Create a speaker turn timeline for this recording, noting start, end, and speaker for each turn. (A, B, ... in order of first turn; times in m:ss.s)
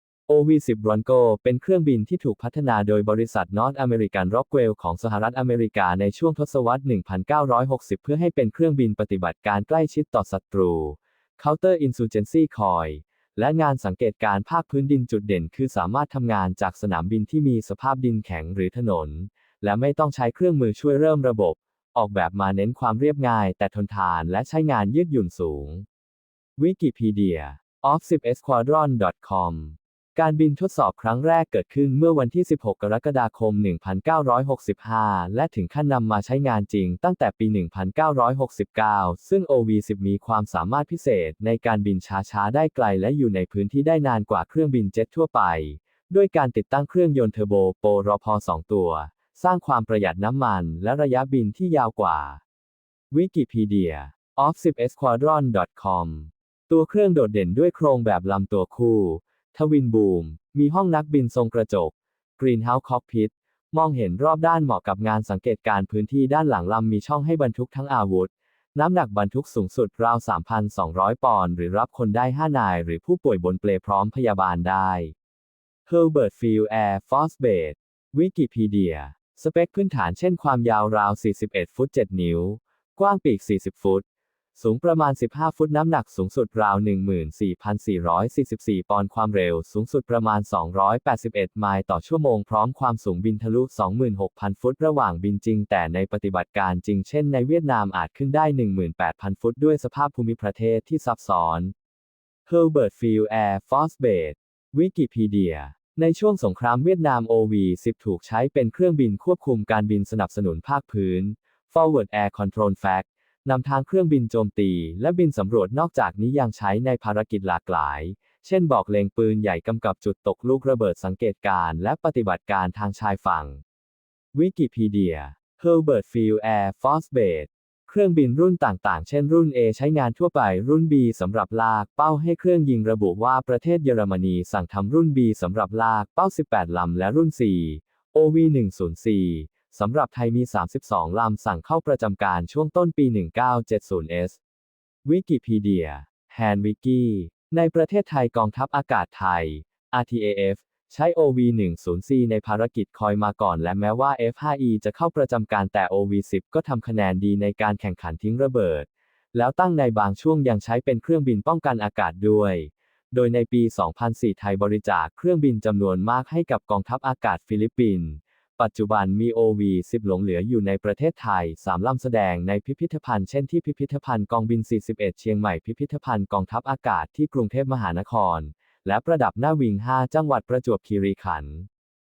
0:00.3-0:25.8 A
0:26.6-0:52.4 A
0:53.1-1:15.1 A
1:15.8-1:24.0 A
1:24.6-1:41.7 A
1:42.5-2:03.6 A
2:04.3-2:24.4 A
2:25.0-3:01.7 A